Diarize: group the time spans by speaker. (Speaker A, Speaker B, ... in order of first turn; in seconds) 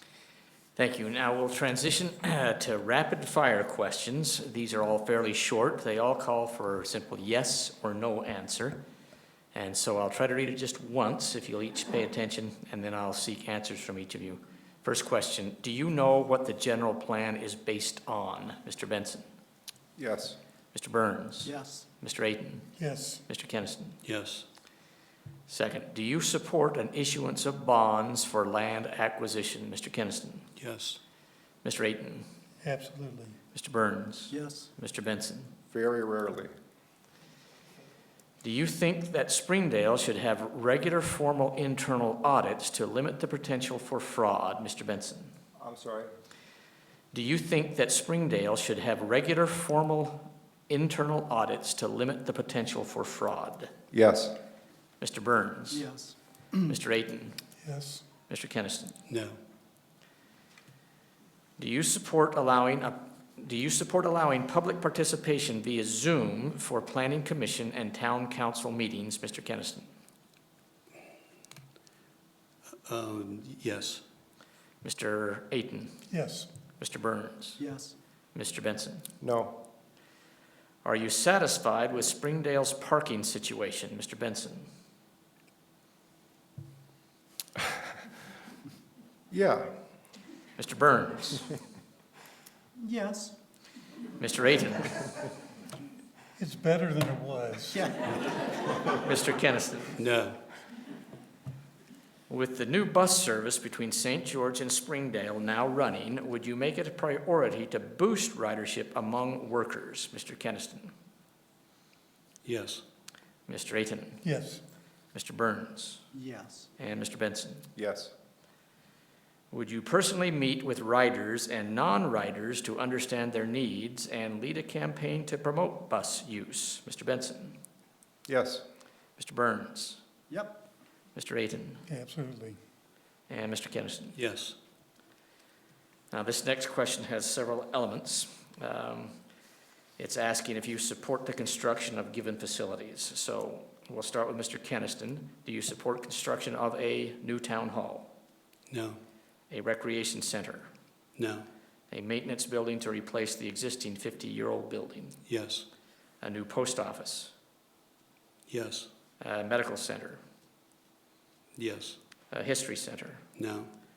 Speaker A: 0.8-8.8, 9.5-19.3, 20.7-22.7, 23.3-24.0, 25.5-30.5, 31.6-32.3, 33.5-35.5, 38.4-45.3, 47.1-53.7, 55.0-55.9, 56.6-57.4, 58.3-59.0, 61.6-69.9, 74.8-76.1, 76.8-77.6, 78.3-79.1, 80.8-84.7, 90.6-91.5, 94.2-95.3, 98.9-100.0, 102.3-110.9, 113.5-114.2, 115.1-116.0, 116.8-117.7, 119.5-127.6, 129.2-130.0, 131.2-131.8, 133.3-134.2, 136.1-139.2, 140.0-148.1, 149.5-150.7, 151.9-155.2, 156.2-157.3, 159.2-160.2, 162.3-163.2
Speaker B: 20.0-20.4, 35.7-36.5, 45.6-46.1, 53.9-54.4, 79.2-79.6, 89.3-89.7, 117.8-118.1, 128.3-128.7
Speaker C: 21.4-21.9, 34.3-34.7, 55.7-56.6, 77.6-77.9, 92.8-93.4, 97.8-98.1, 116.1-116.7, 130.3-130.6
Speaker D: 22.8-23.2, 32.6-33.4, 57.6-58.0, 76.1-76.5, 96.4-97.9, 114.2-114.6, 131.9-132.6
Speaker E: 24.0-24.5, 30.6-31.0, 59.1-59.4, 72.8-74.0, 100.0-100.4, 112.4-112.8, 134.1-134.6, 148.7-149.0, 151.2-151.5, 155.3-155.7, 158.5-158.9, 161.6-162.0, 163.4-163.7